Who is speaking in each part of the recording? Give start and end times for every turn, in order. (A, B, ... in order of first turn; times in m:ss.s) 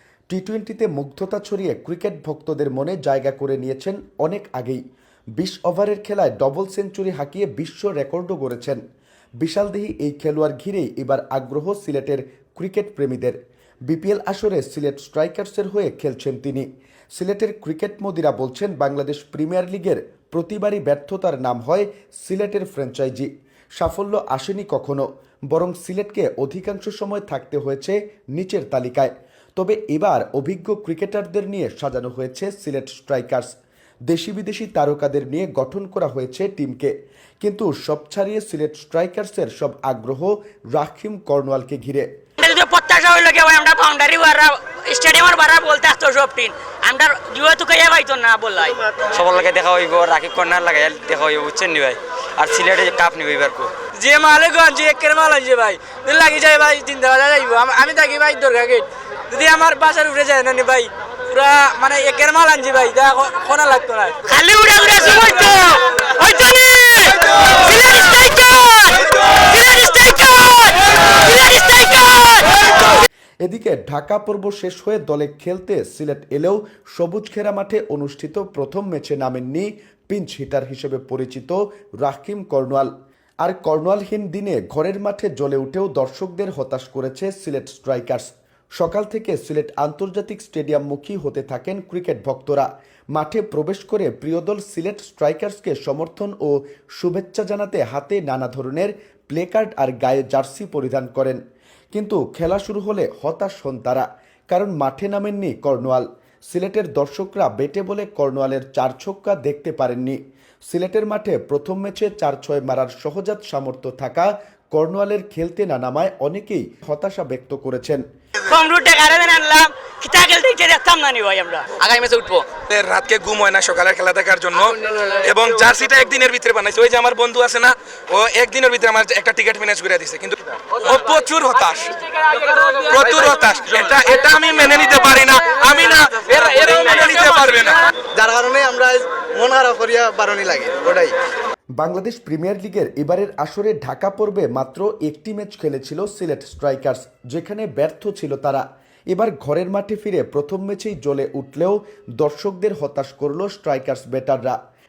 0:00.3-0:04.8 A
0:05.4-0:08.8 A
0:09.4-0:13.4 A
0:13.9-0:33.5 A
0:34.1-0:42.1 A
0:42.4-0:48.8 B
0:49.2-0:53.7 C
0:53.9-1:04.2 D
1:04.3-1:12.9 B
1:13.4-1:22.9 A
1:23.4-1:41.4 A
1:41.9-1:50.2 A
1:50.7-1:58.0 A
1:58.5-2:01.8 B
2:01.8-2:02.5 D
2:02.6-2:11.9 E
2:12.7-2:17.8 E
2:18.2-2:21.1 F
2:21.8-2:34.6 A